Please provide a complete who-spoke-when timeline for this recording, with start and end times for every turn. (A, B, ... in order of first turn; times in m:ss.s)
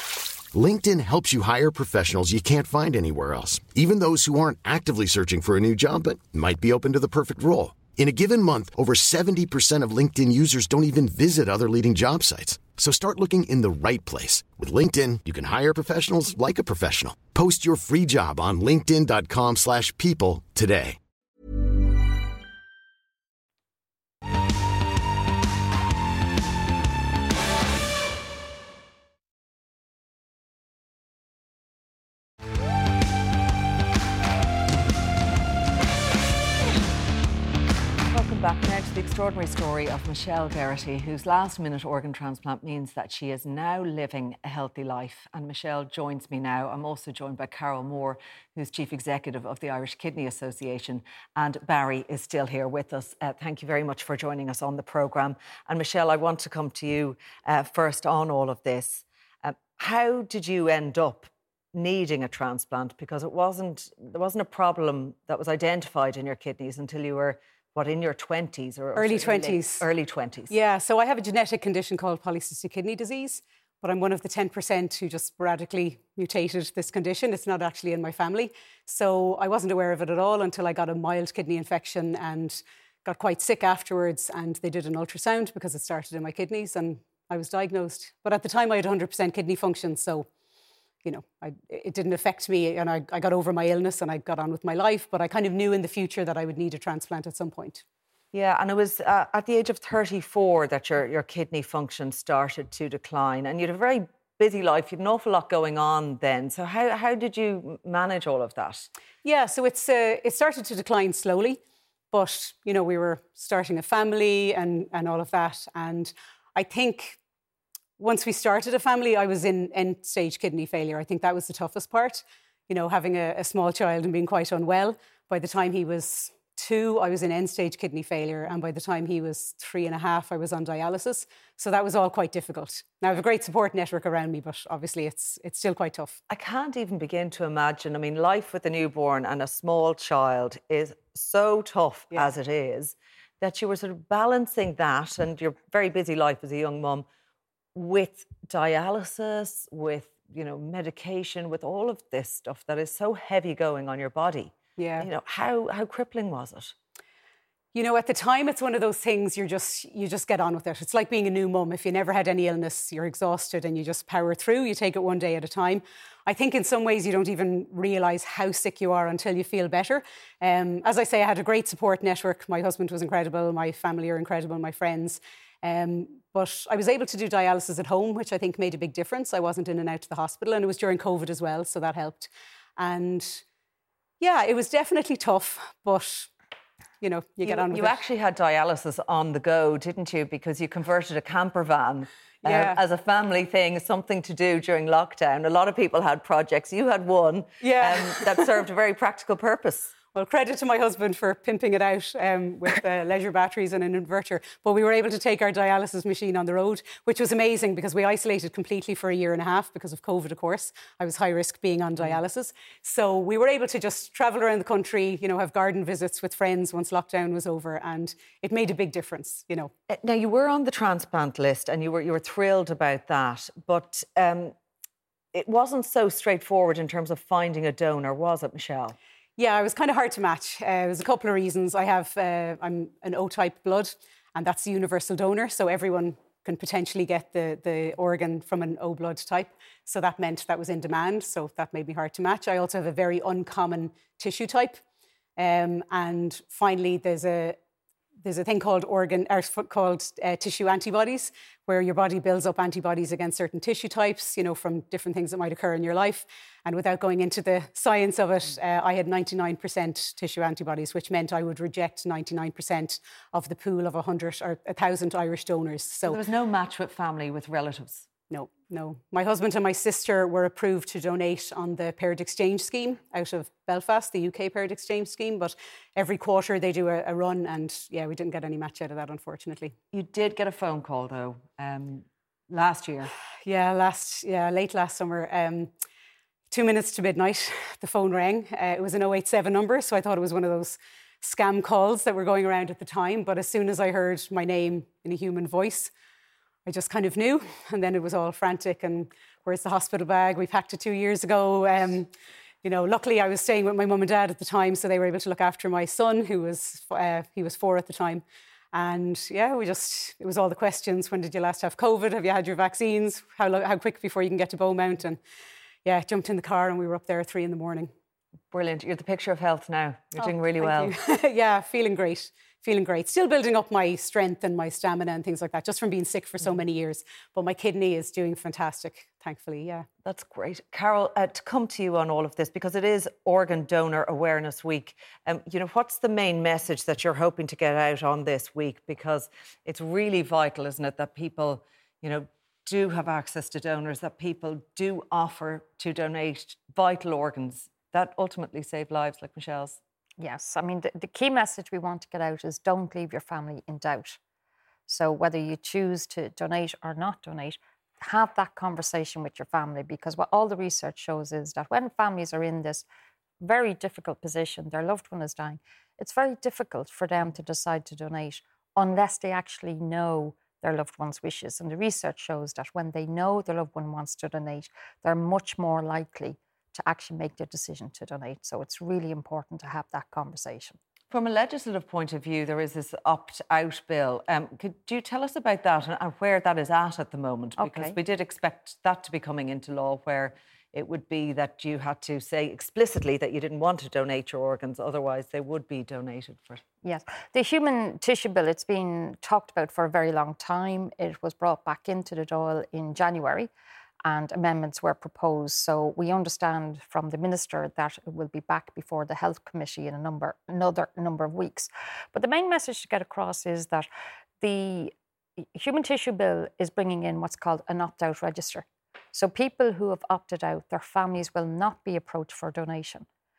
0:00.5-0:21.0 A
0:38.1-1:10.5 B
1:09.0-1:09.9 C
1:10.5-1:30.3 C
1:31.0-1:37.8 C
1:38.3-1:48.9 B
1:49.2-1:51.6 C
1:52.1-1:57.2 C
1:58.0-2:16.2 C
2:16.3-2:27.0 B
2:27.8-2:36.7 B
2:34.8-2:35.1 C
2:37.7-3:03.4 C
3:04.2-3:06.3 C
3:07.0-3:08.0 C
3:07.4-3:19.9 B
3:12.4-3:12.8 C
3:17.6-3:18.5 C
3:20.1-3:39.7 C
3:39.9-3:44.6 B
3:45.3-3:49.0 B
3:49.4-4:04.8 C
4:05.4-4:07.6 C
4:08.2-4:26.2 C
4:26.0-4:28.1 B
4:28.3-4:39.8 C
4:39.9-4:43.1 B
4:43.4-4:45.7 C
4:46.5-4:55.9 C
4:56.6-5:02.1 C
5:02.6-5:15.2 C
5:15.8-5:17.9 C
5:18.5-5:20.9 B
5:20.2-5:29.9 C
5:30.0-5:49.8 B
5:50.2-5:54.2 D
5:54.9-6:02.9 D
6:03.4-6:20.8 D
6:21.1-6:36.6 B
6:27.6-6:28.0 D
6:36.8-6:43.5 D
6:44.0-6:53.9 D
6:54.4-6:54.9 D
6:55.6-7:03.1 D